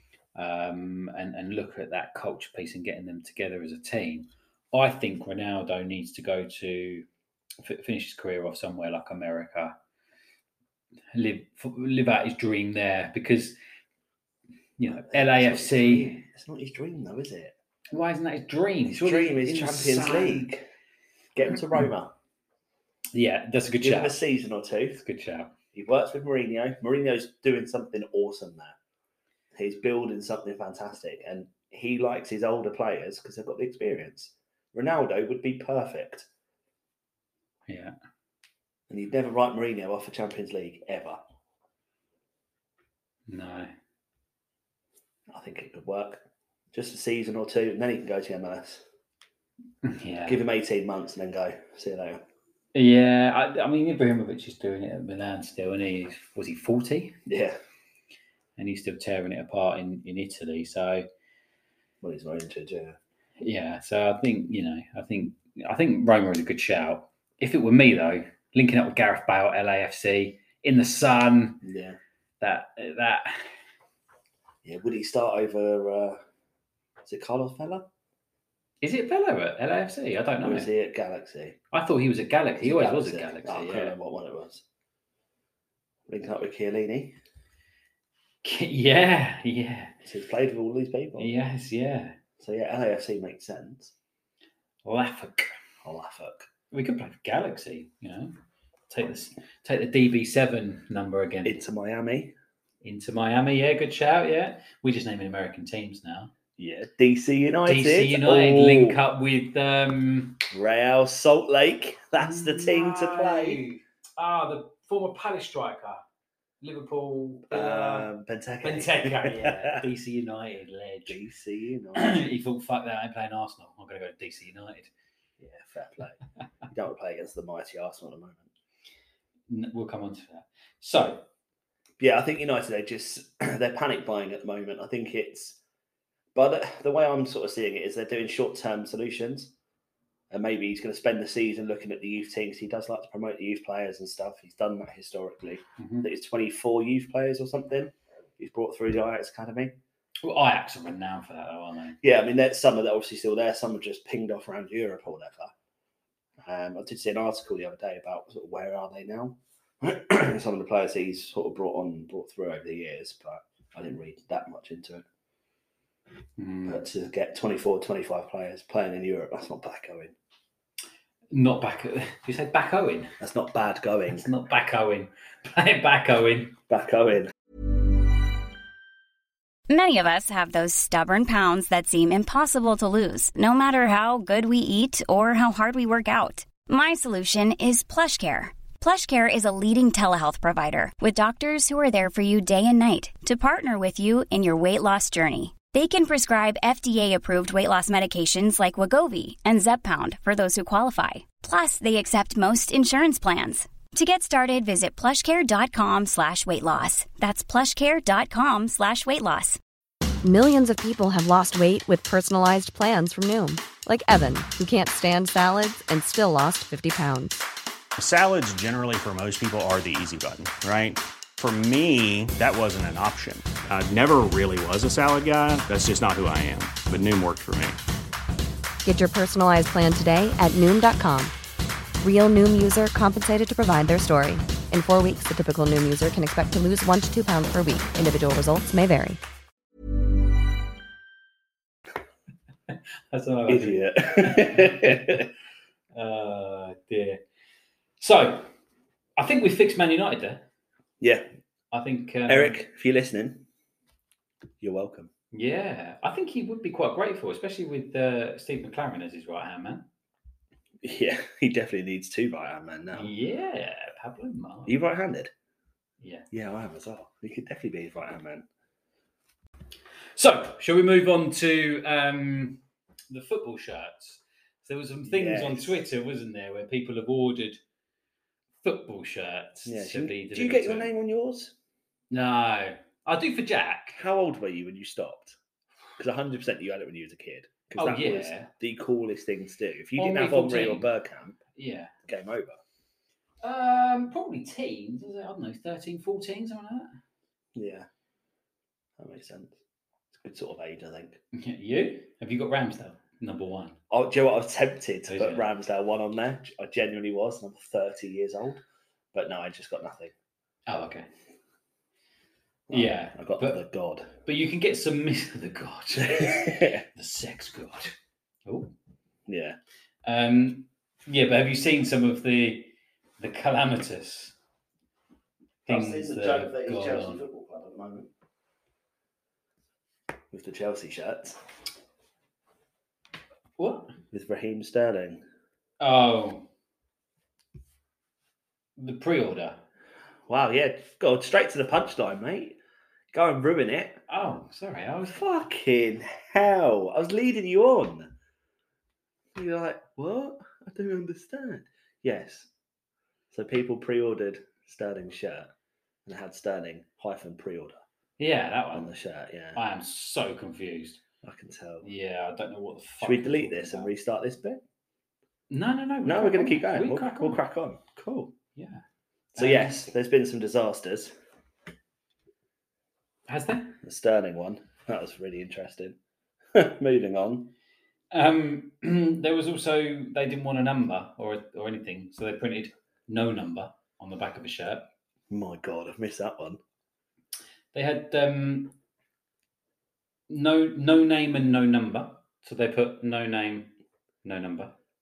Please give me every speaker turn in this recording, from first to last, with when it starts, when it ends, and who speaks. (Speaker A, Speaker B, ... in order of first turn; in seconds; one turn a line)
Speaker A: 0.3-7.0
Speaker A: 7.6-9.8
Speaker A: 11.1-13.6
Speaker A: 14.8-16.2
Speaker B: 15.1-17.5
Speaker A: 17.9-20.5
Speaker B: 18.9-20.7
Speaker B: 21.4-22.1
Speaker A: 23.1-24.2
Speaker B: 23.8-25.0
Speaker A: 25.0-25.5
Speaker B: 25.7-28.8
Speaker B: 29.5-36.3
Speaker A: 37.7-37.9
Speaker B: 38.9-41.2
Speaker A: 43.3-43.7
Speaker B: 45.3-48.8
Speaker A: 49.8-50.4
Speaker B: 50.3-52.2
Speaker A: 52.7-57.2
Speaker B: 57.3-57.6
Speaker A: 58.6-61.1
Speaker B: 62.0-63.0
Speaker A: 63.4-71.6
Speaker B: 71.6-72.0
Speaker A: 72.4-73.4
Speaker B: 74.6-76.2
Speaker B: 77.0-77.9
Speaker A: 78.8-80.7
Speaker B: 80.4-81.6
Speaker A: 81.7-83.9
Speaker B: 82.6-84.6
Speaker B: 86.1-87.2
Speaker A: 88.4-90.0
Speaker B: 90.0-91.3
Speaker A: 91.2-92.2
Speaker B: 92.4-93.9
Speaker A: 94.8-95.5
Speaker B: 95.8-96.5
Speaker A: 96.7-98.3
Speaker A: 98.9-101.6
Speaker B: 101.4-102.3
Speaker A: 102.8-106.3
Speaker B: 106.6-109.0
Speaker A: 107.7-110.4
Speaker B: 110.5-113.6
Speaker A: 112.2-116.0
Speaker A: 116.6-118.1
Speaker B: 117.5-119.8
Speaker A: 118.6-121.2
Speaker B: 121.1-122.3
Speaker A: 121.9-124.9
Speaker B: 125.4-126.2
Speaker B: 126.7-128.5
Speaker A: 129.5-131.2
Speaker B: 132.0-135.6
Speaker B: 136.3-139.5
Speaker B: 140.3-149.8
Speaker A: 145.8-146.1
Speaker A: 150.2-152.0
Speaker B: 152.0-155.5
Speaker B: 156.4-165.0
Speaker A: 166.4-166.8
Speaker B: 166.7-170.1
Speaker A: 171.3-173.1
Speaker B: 173.2-174.2
Speaker A: 174.1-176.6
Speaker B: 176.7-177.3
Speaker C: 179.7-209.6
Speaker D: 210.2-217.4
Speaker E: 218.0-227.8
Speaker D: 228.8-231.3
Speaker D: 232.0-239.2
Speaker A: 243.1-245.2
Speaker B: 243.5-245.2
Speaker A: 245.9-247.2
Speaker A: 248.0-248.5
Speaker A: 249.2-250.4
Speaker B: 251.0-251.3
Speaker A: 251.7-252.6
Speaker B: 252.3-253.4
Speaker B: 254.6-255.1
Speaker A: 255.3-259.9
Speaker B: 260.8-263.1
Speaker A: 262.9-264.8
Speaker B: 264.7-265.3
Speaker A: 266.0-266.2
Speaker B: 266.3-268.4
Speaker A: 270.1-277.6
Speaker B: 275.1-275.8
Speaker A: 278.6-280.9
Speaker B: 279.7-281.5
Speaker A: 282.1-284.0
Speaker B: 283.9-285.4
Speaker B: 286.0-291.4
Speaker A: 287.8-288.5
Speaker A: 290.0-290.9
Speaker A: 291.6-291.9
Speaker B: 292.0-292.6
Speaker A: 293.4-296.9
Speaker B: 297.5-297.9
Speaker B: 299.0-299.6
Speaker B: 300.1-301.2
Speaker A: 301.3-303.8
Speaker B: 303.9-308.6
Speaker A: 305.1-305.5
Speaker B: 309.1-310.1
Speaker A: 310.7-311.1
Speaker B: 312.7-314.1
Speaker A: 312.7-313.6
Speaker A: 314.2-317.9
Speaker B: 316.1-316.9
Speaker A: 318.4-318.7
Speaker B: 319.3-319.6
Speaker A: 320.0-324.4
Speaker A: 325.6-327.2
Speaker B: 325.6-328.1
Speaker B: 330.3-331.4
Speaker A: 333.6-333.9
Speaker B: 334.1-335.2
Speaker A: 335.8-336.5
Speaker A: 338.8-339.6
Speaker B: 340.3-342.6
Speaker B: 343.1-344.0
Speaker A: 344.1-345.2
Speaker B: 345.1-348.1
Speaker B: 349.4-352.5
Speaker B: 353.3-355.5
Speaker B: 356.1-357.8
Speaker A: 358.2-358.9
Speaker B: 358.7-359.6
Speaker A: 359.5-361.0
Speaker B: 361.2-361.9
Speaker A: 361.8-363.9
Speaker B: 363.0-364.6
Speaker A: 365.5-367.4
Speaker B: 366.0-368.3
Speaker A: 368.5-368.8
Speaker A: 369.3-369.9
Speaker B: 369.4-371.1
Speaker A: 373.3-373.8
Speaker B: 373.8-375.9
Speaker B: 376.5-377.5
Speaker A: 378.1-384.9
Speaker B: 385.3-386.6
Speaker A: 387.7-388.7
Speaker A: 390.3-394.7